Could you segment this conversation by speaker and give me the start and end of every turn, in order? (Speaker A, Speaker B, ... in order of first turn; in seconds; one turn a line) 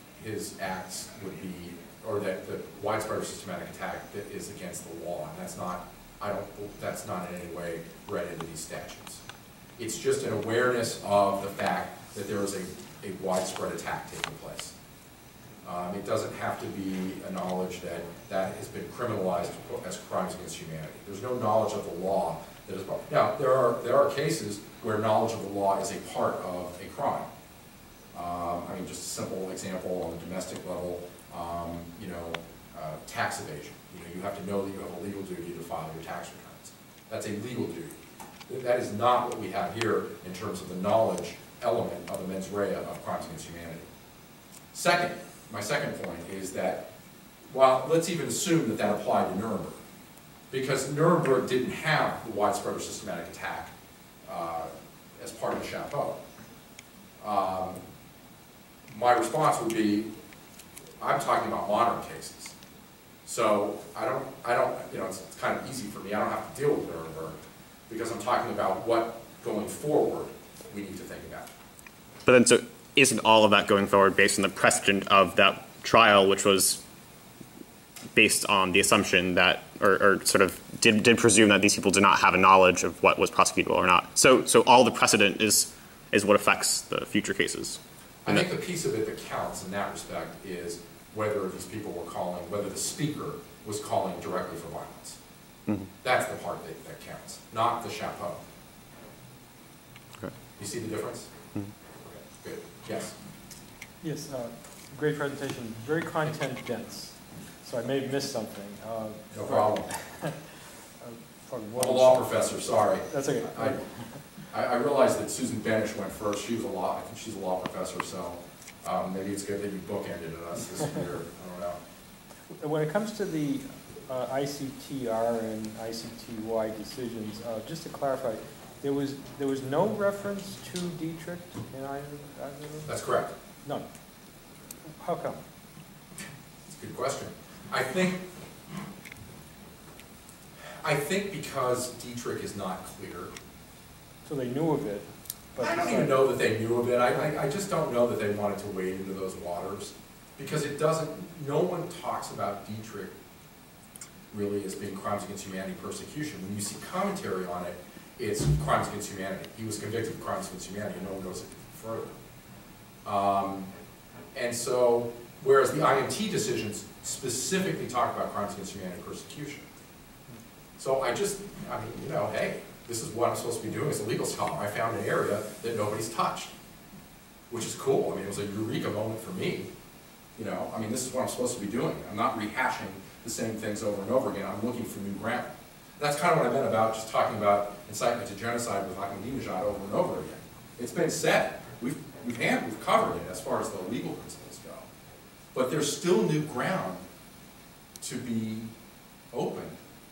Speaker A: 0.2-9.2
Speaker A: 9.8-14.7
Speaker A: 15.6-27.3
Speaker A: 28.1-38.0
Speaker A: 38.5-43.9
Speaker A: 44.7-46.9
Speaker A: 47.5-49.8
Speaker A: 50.5-53.7
Speaker A: 54.3-56.2
Speaker A: 57.2-57.8
Speaker A: 58.9-60.1
Speaker A: 61.0-62.5
Speaker A: 63.2-67.4
Speaker A: 67.9-71.5
Speaker B: 72.2-76.8
Speaker B: 78.2-88.5
Speaker A: 88.2-95.2
Speaker A: 96.0-98.4
Speaker A: 100.6-101.3
Speaker A: 102.4-103.2
Speaker C: 104.0-114.3
Speaker A: 109.3-110.0
Speaker A: 111.8-121.8
Speaker C: 122.5-133.1
Speaker A: 132.9-133.3
Speaker C: 134.9-135.4
Speaker A: 136.7-138.2
Speaker A: 140.8-143.3
Speaker C: 144.2-146.2
Speaker A: 145.6-153.2
Speaker A: 154.3-162.1
Speaker A: 163.1-163.7
Speaker A: 164.3-169.7
Speaker A: 170.8-176.5
Speaker A: 177.5-179.7
Speaker A: 180.4-194.9
Speaker A: 195.5-197.0
Speaker A: 198.0-198.7
Speaker A: 199.3-199.8